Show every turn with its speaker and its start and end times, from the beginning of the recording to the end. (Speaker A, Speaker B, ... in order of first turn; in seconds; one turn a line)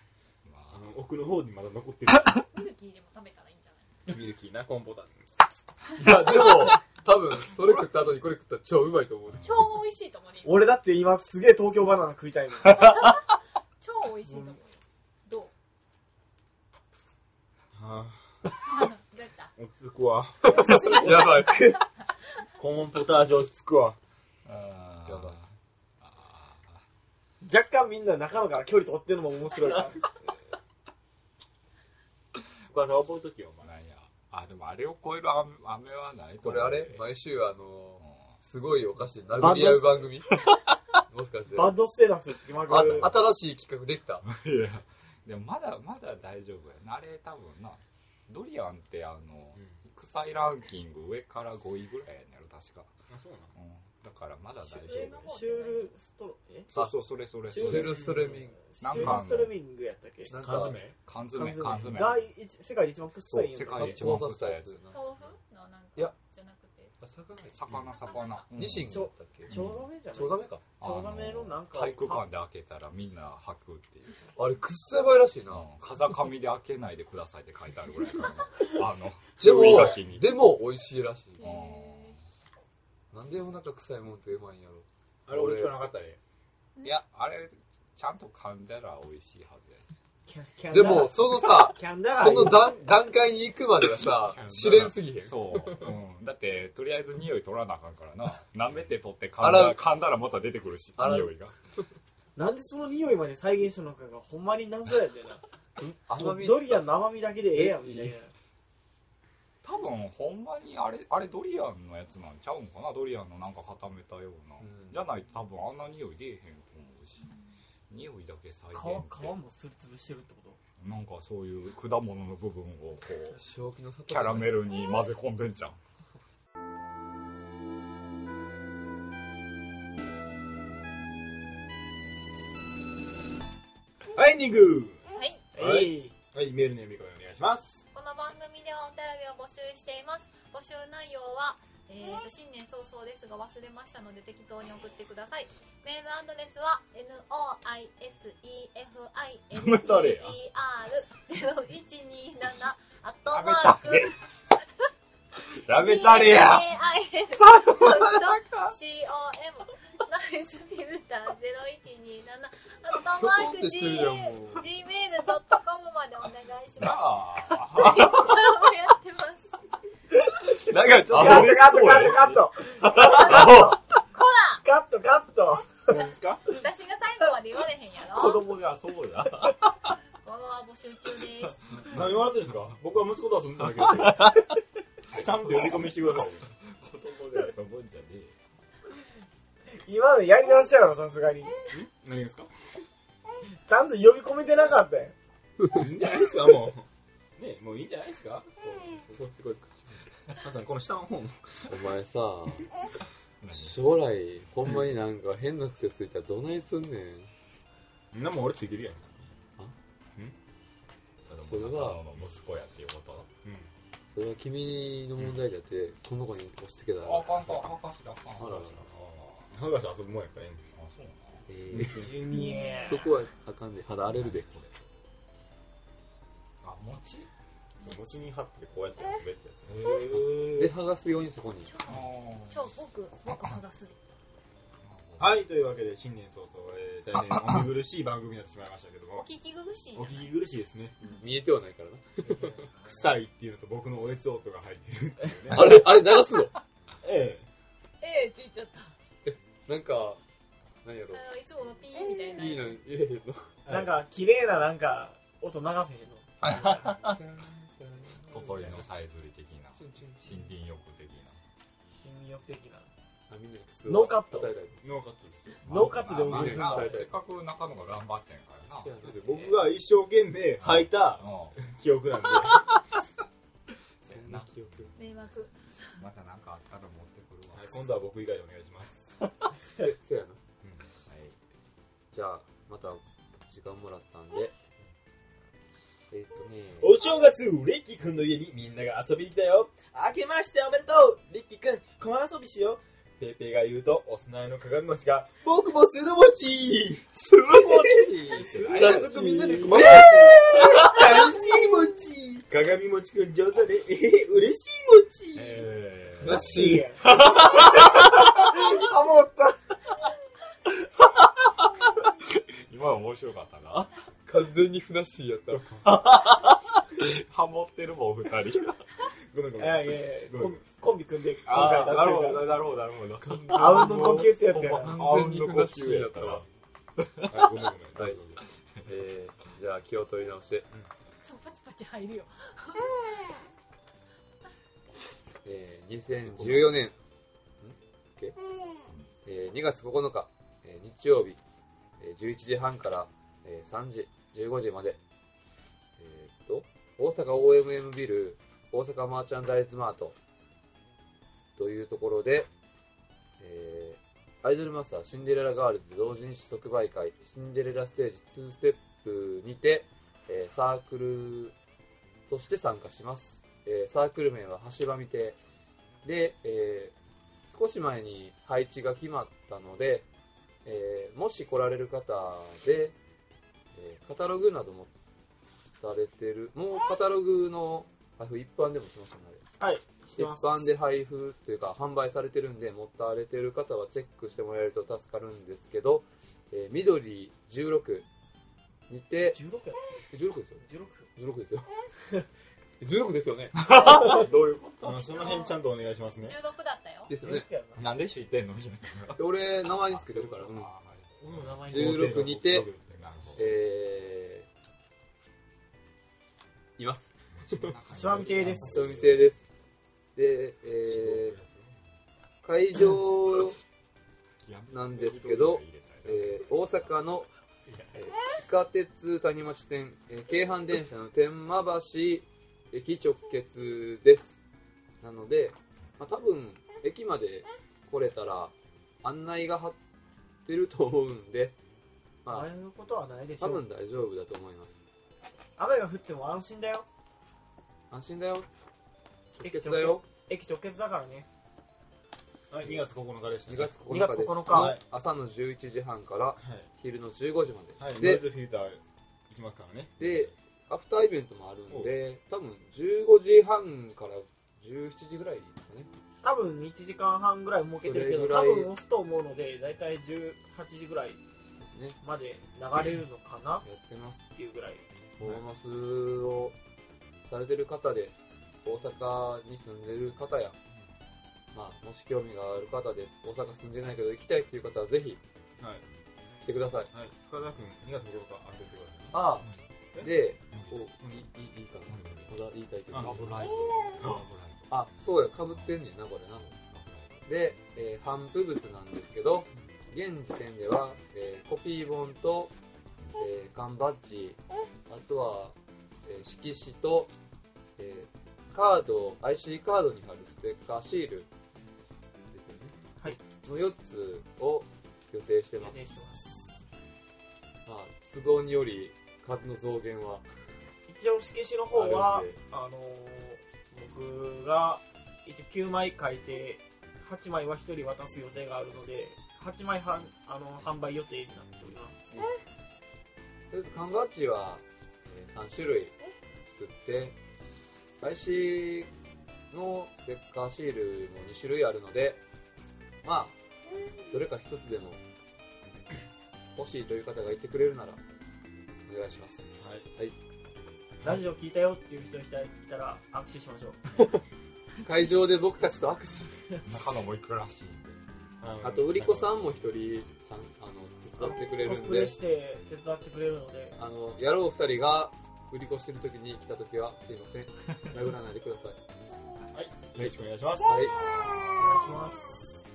Speaker A: 0.4-0.8
Speaker B: 0.7-2.4
Speaker C: 2.5-3.9
Speaker B: 4.1-5.3
Speaker D: 6.0-9.7
Speaker C: 9.4-10.7
Speaker E: 10.4-13.2
Speaker C: 12.8-13.2
Speaker C: 13.8-15.5
Speaker E: 14.3-14.5
Speaker B: 17.8-18.3
Speaker C: 18.6-19.5
Speaker B: 19.6-20.5
Speaker D: 20.4-21.8
Speaker C: 20.5-21.9
Speaker E: 20.6-21.5
Speaker B: 22.6-24.0
Speaker A: 24.4-25.5
Speaker D: 25.1-25.4
Speaker A: 26.0-26.8
Speaker E: 27.4-30.0
Speaker B: 32.7-33.7
Speaker A: 33.6-37.0
Speaker D: 36.4-40.4
Speaker A: 38.0-38.2
Speaker E: 39.4-40.1
Speaker D: 41.1-41.8
Speaker E: 41.5-43.3
Speaker D: 42.7-44.3
Speaker A: 42.8-43.1
Speaker A: 44.2-52.9
Speaker B: 49.5-49.8
Speaker B: 53.1-53.5
Speaker A: 53.5-55.3
Speaker C: 54.6-55.9
Speaker E: 54.7-56.7
Speaker A: 56.7-58.1
Speaker B: 57.5-58.4
Speaker D: 57.5-58.6
Speaker E: 58.7-60.7
Speaker A: 58.8-59.5
Speaker D: 60.3-60.8
Speaker B: 60.3-61.0
Speaker A: 61.1-62.2
Speaker E: 61.3-64.1
Speaker A: 63.3-64.8
Speaker D: 63.7-65.1
Speaker C: 64.9-66.9
Speaker D: 67.0-67.8
Speaker A: 67.6-69.9
Speaker C: 67.9-68.6
Speaker D: 68.5-69.5
Speaker E: 68.8-72.2
Speaker D: 70.1-70.6
Speaker A: 70.8-74.2
Speaker D: 74.4-75.7
Speaker A: 75.5-80.3
Speaker D: 79.4-81.5
Speaker C: 81.4-82.2
Speaker A: 81.4-82.2
Speaker D: 83.1-85.8
Speaker B: 85.3-86.2
Speaker A: 86.8-89.8
Speaker E: 90.3-92.7
Speaker D: 90.7-95.8
Speaker A: 94.2-101.5
Speaker D: 99.4-99.8
Speaker D: 101.0-101.3
Speaker E: 102.4-105.4
Speaker D: 105.8-107.0
Speaker E: 106.2-108.3
Speaker D: 107.5-108.1
Speaker A: 109.6-117.3
Speaker D: 114.6-115.0
Speaker A: 117.9-119.4
Speaker E: 118.7-120.6
Speaker A: 120.8-123.4
Speaker D: 123.4-124.6
Speaker A: 124.1-125.8
Speaker B: 134.1-135.0
Speaker C: 135.2-135.4
Speaker E: 135.5-136.1
Speaker B: 135.6-137.8
Speaker C: 137.9-154.2
Speaker A: 149.5-150.4
Speaker A: 153.3-154.2
Speaker A: 155.5-156.7
Speaker C: 155.8-169.5
Speaker A: 157.3-158.8
Speaker D: 163.2-164.6
Speaker A: 166.8-168.5
Speaker A: 170.4-173.8
Speaker E: 171.1-173.8
Speaker D: 171.2-171.5
Speaker C: 174.1-174.7
Speaker E: 174.6-176.1
Speaker B: 175.9-176.4
Speaker C: 176.5-178.4
Speaker A: 178.1-179.7
Speaker C: 180.2-181.9
Speaker B: 181.9-184.4
Speaker A: 183.8-184.4
Speaker B: 185.1-186.5
Speaker A: 185.5-185.8
Speaker A: 186.7-188.3
Speaker E: 189.8-191.6
Speaker B: 191.7-192.5
Speaker E: 193.7-195.2
Speaker B: 195.7-196.9
Speaker B: 197.4-198.5
Speaker D: 198.6-200.1
Speaker B: 200.4-201.6
Speaker D: 201.7-202.7
Speaker A: 203.4-203.8
Speaker D: 203.5-207.3
Speaker B: 208.1-209.3
Speaker A: 211.2-213.3
Speaker D: 211.4-212.0
Speaker D: 214.1-217.7
Speaker A: 217.0-219.4
Speaker D: 218.4-218.8
Speaker B: 219.5-220.6
Speaker A: 220.8-221.5
Speaker D: 221.5-224.5
Speaker B: 221.7-222.3
Speaker E: 221.9-223.1
Speaker C: 222.3-223.0
Speaker A: 224.3-224.7
Speaker A: 226.6-227.3
Speaker B: 227.8-229.8
Speaker A: 229.7-230.7
Speaker D: 230.6-231.7
Speaker C: 231.6-234.0
Speaker A: 231.9-232.7
Speaker A: 233.3-233.6
Speaker A: 234.8-235.4
Speaker B: 235.2-239.3
Speaker C: 239.2-240.3
Speaker B: 239.9-240.9
Speaker D: 241.1-242.6
Speaker B: 242.3-245.7
Speaker A: 245.5-245.8
Speaker D: 245.5-246.5
Speaker B: 247.0-247.5
Speaker C: 248.0-248.9
Speaker D: 249.2-250.2
Speaker D: 250.8-251.2
Speaker C: 251.1-252.7
Speaker D: 252.3-253.6
Speaker E: 253.7-256.7
Speaker A: 256.4-257.2
Speaker D: 256.8-258.8
Speaker A: 258.3-261.4
Speaker D: 259.8-260.4
Speaker E: 262.0-262.9
Speaker D: 263.3-264.8
Speaker E: 263.9-264.5
Speaker B: 264.8-265.6
Speaker A: 265.6-268.9
Speaker E: 265.6-267.0
Speaker D: 266.1-267.1
Speaker D: 268.8-269.6
Speaker B: 269.0-272.7
Speaker A: 270.6-271.6
Speaker A: 274.1-274.5
Speaker D: 274.1-274.9
Speaker C: 275.0-276.0
Speaker A: 276.0-277.9
Speaker B: 277.5-279.1
Speaker D: 279.8-280.4
Speaker A: 281.1-281.4
Speaker D: 282.1-284.5
Speaker D: 286.1-287.0
Speaker B: 286.8-297.1
Speaker D: 297.2-301.5
Speaker A: 297.6-300.7
Speaker B: 298.6-305.7
Speaker E: 299.6-300.0
Speaker A: 305.4-307.9
Speaker D: 306.2-307.1
Speaker E: 306.3-309.6
Speaker B: 306.5-306.8
Speaker A: 312.2-313.9
Speaker D: 314.3-315.6
Speaker B: 315.5-315.9
Speaker A: 315.9-318.8
Speaker B: 319.3-320.6
Speaker E: 319.6-322.5
Speaker A: 321.4-326.4
Speaker D: 323.2-326.4
Speaker E: 323.5-325.0
Speaker A: 327.0-327.5
Speaker B: 327.3-328.4
Speaker D: 328.9-330.7
Speaker C: 331.2-333.4
Speaker D: 335.4-337.0
Speaker A: 336.3-336.8
Speaker D: 337.6-338.4
Speaker D: 339.2-341.4
Speaker D: 342.0-345.0
Speaker D: 346.0-350.2
Speaker D: 351.6-352.5
Speaker D: 353.4-361.6
Speaker D: 362.3-365.4
Speaker D: 366.0-366.9
Speaker D: 367.5-370.1
Speaker D: 370.6-373.0
Speaker D: 373.8-374.9
Speaker D: 375.8-379.4
Speaker E: 379.6-380.7
Speaker D: 380.1-388.1
Speaker D: 388.9-389.4
Speaker E: 389.2-389.8
Speaker D: 390.1-390.6
Speaker E: 390.6-391.1
Speaker D: 391.1-391.7
Speaker D: 392.8-394.3
Speaker A: 393.6-395.2
Speaker B: 394.8-396.4
Speaker C: 395.0-395.6
Speaker C: 396.2-397.1
Speaker D: 397.1-397.5
Speaker E: 397.1-397.9
Speaker A: 397.8-401.1
Speaker D: 399.1-400.7
Speaker B: 401.2-403.0
Speaker E: 401.3-402.3
Speaker D: 401.7-402.7
Speaker A: 402.8-403.4
Speaker D: 403.4-404.5
Speaker D: 406.8-407.7
Speaker A: 407.3-409.2
Speaker E: 407.9-409.0
Speaker D: 408.6-409.4
Speaker D: 410.2-411.4
Speaker B: 410.9-411.8
Speaker D: 412.4-413.6
Speaker A: 414.4-416.9
Speaker D: 414.7-417.3
Speaker D: 417.9-424.4
Speaker D: 425.0-429.8
Speaker D: 430.5-431.6
Speaker D: 432.2-432.5
Speaker E: 432.3-433.6
Speaker D: 433.4-434.8
Speaker E: 435.6-436.9
Speaker D: 437.9-438.5
Speaker D: 439.3-440.0
Speaker E: 439.4-441.3
Speaker B: 442.5-443.7
Speaker D: 443.5-448.3
Speaker E: 443.9-444.8
Speaker B: 444.5-444.8
Speaker B: 446.4-446.7
Speaker B: 447.8-450.3
Speaker D: 450.0-455.9
Speaker E: 456.2-461.2
Speaker D: 457.8-458.7
Speaker D: 461.6-462.0
Speaker E: 462.0-463.6
Speaker D: 463.6-464.2
Speaker E: 464.3-464.8
Speaker D: 465.2-466.6
Speaker D: 467.3-470.6
Speaker D: 471.5-475.2
Speaker D: 476.4-476.9
Speaker B: 476.9-479.2
Speaker D: 479.1-483.6
Speaker A: 481.9-482.4
Speaker B: 482.9-483.2
Speaker A: 483.0-484.7
Speaker D: 484.7-486.6
Speaker A: 485.5-485.8
Speaker A: 486.6-487.2
Speaker D: 487.3-492.5
Speaker D: 493.2-497.1
Speaker D: 497.8-501.3
Speaker D: 502.3-505.8
Speaker E: 505.6-506.6
Speaker D: 507.7-510.3
Speaker E: 510.9-522.1
Speaker D: 511.7-512.4
Speaker D: 523.5-526.0
Speaker D: 526.5-527.2
Speaker D: 528.0-528.9
Speaker D: 529.5-532.2
Speaker D: 533.0-533.4
Speaker D: 534.1-535.0
Speaker D: 536.6-538.0
Speaker D: 538.9-540.1
Speaker B: 539.6-539.9
Speaker E: 541.0-543.8
Speaker D: 544.8-546.3
Speaker A: 546.7-548.0
Speaker B: 548.4-549.5
Speaker D: 548.6-552.2
Speaker E: 551.2-553.8
Speaker D: 553.8-558.8
Speaker B: 559.5-560.7
Speaker D: 560.0-561.0
Speaker A: 560.9-561.5
Speaker E: 561.6-562.6